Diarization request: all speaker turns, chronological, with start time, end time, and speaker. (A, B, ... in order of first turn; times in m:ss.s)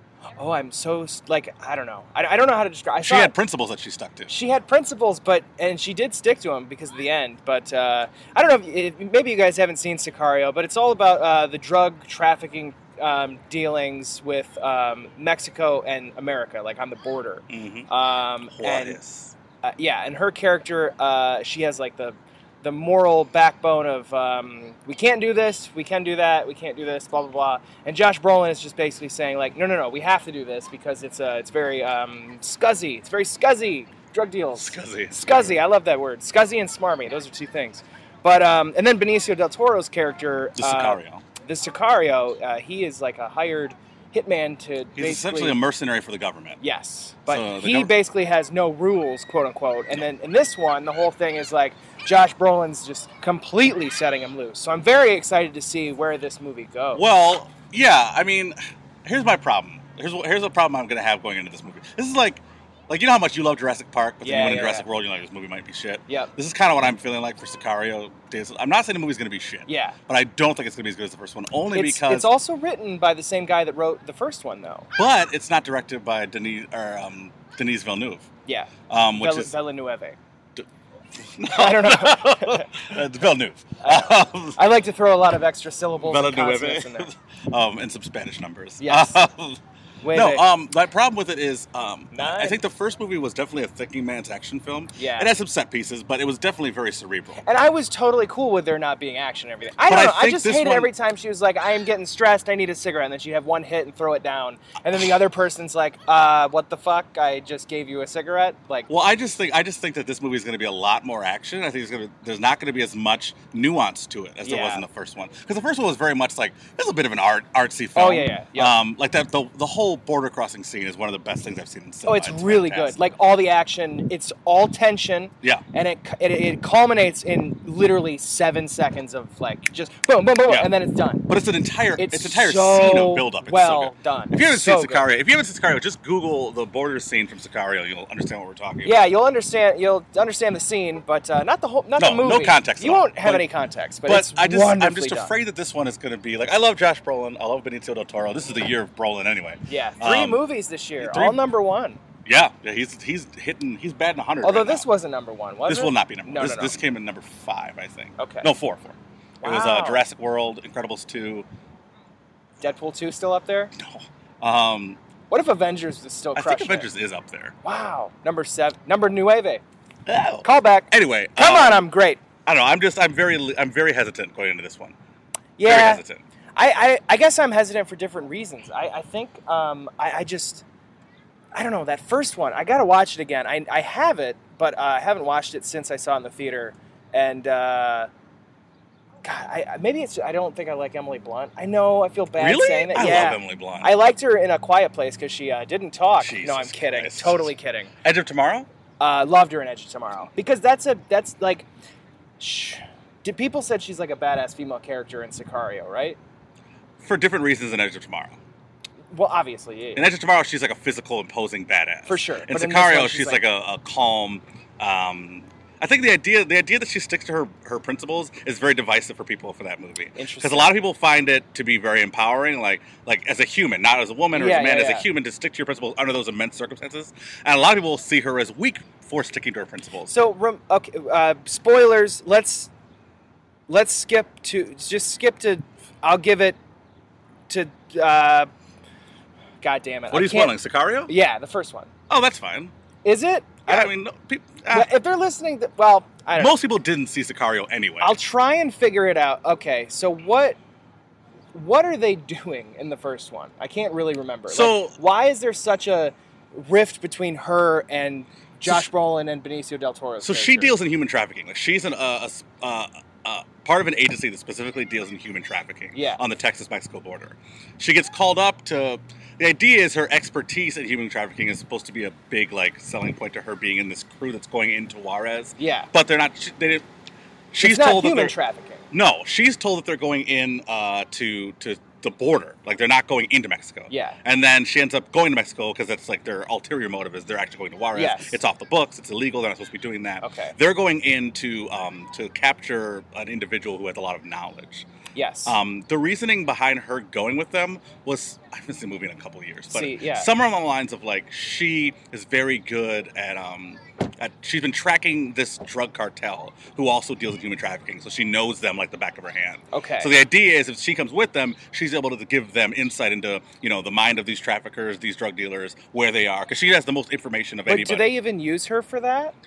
0:00.4-0:03.3 A
0:03.0-0:04.3 B
0:04.3-0:19.0 A
0:17.5-0:17.9 B
0:18.5-0:19.3 B
0:19.6-0:45.6 A
0:34.6-0:35.6 B
0:40.6-0:41.2 B
0:45.0-0:46.6 B
0:46.6-0:57.0 A
0:47.3-0:47.9 B
0:56.9-1:12.3 B
1:04.2-1:04.8 A
1:09.7-1:09.9 A
1:11.7-1:14.9 A
1:15.0-1:18.3 B
1:18.4-1:20.2 A
1:18.9-1:19.5 B
1:21.3-1:24.6 B
1:21.4-1:22.7 A
1:23.8-1:27.1 A
1:26.0-1:29.6 B
1:28.8-1:29.2 A
1:30.0-1:30.4 A
1:30.1-1:37.4 B
1:32.1-1:32.6 A
1:35.0-1:35.3 A
1:37.4-1:48.9 A
1:39.8-1:40.9 B
1:48.9-2:03.0 B
1:54.4-1:54.8 A
1:57.9-1:58.7 A
2:02.0-2:11.3 A
2:10.5-2:10.7 B
2:11.3-2:19.0 B
2:12.0-2:15.0 A
2:18.8-2:25.3 A
2:22.0-2:23.5 B
2:24.0-2:30.4 B
2:29.7-2:32.0 A
2:31.0-2:31.4 B
2:32.2-2:34.8 B
2:34.4-2:36.8 A
2:35.7-2:41.4 B
2:38.2-2:38.5 A
2:39.4-2:40.0 A
2:42.6-2:43.7 A
2:43.8-2:45.0 B
2:45.3-2:46.9 A
2:46.4-2:47.5 B
2:47.6-2:49.6 A
2:50.1-2:51.8 B
2:50.4-2:52.2 A
2:52.4-2:54.9 B
2:55.6-2:56.0 A
2:55.6-2:56.2 B
2:56.6-3:00.6 A
3:01.5-3:08.1 A
3:09.2-3:17.9 A
3:12.4-3:14.0 B
3:16.2-3:17.5 B
3:18.0-3:18.7 B
3:19.0-3:21.7 A
3:22.4-3:26.2 A
3:27.0-3:28.4 B
3:29.1-3:30.0 A
3:30.0-3:50.1 B
3:32.1-3:33.4 A
3:40.2-3:40.7 A
3:44.3-3:45.0 A
3:50.1-3:52.7 A
3:53.7-3:56.6 A
3:57.5-3:58.5 A
3:59.6-4:00.5 A
4:00.1-4:01.1 B
4:01.1-4:01.9 A
4:02.1-4:02.7 B
4:03.0-4:03.9 A
4:03.7-4:04.9 B
4:04.7-4:06.5 A
4:06.4-4:08.2 B
4:08.0-4:10.6 A
4:11.5-4:20.7 A
4:14.5-4:15.0 B
4:20.2-4:36.8 B
4:25.9-4:26.2 A
4:35.6-4:35.9 A
4:37.5-4:38.3 B
4:37.6-4:38.8 A
4:38.9-4:54.8 B
4:43.9-4:44.2 A
4:47.9-4:48.4 A
4:50.2-4:50.5 A
4:55.1-4:55.6 A
4:55.4-5:18.1 B
4:59.7-5:00.3 A
5:09.7-5:10.1 A
5:17.7-5:19.3 A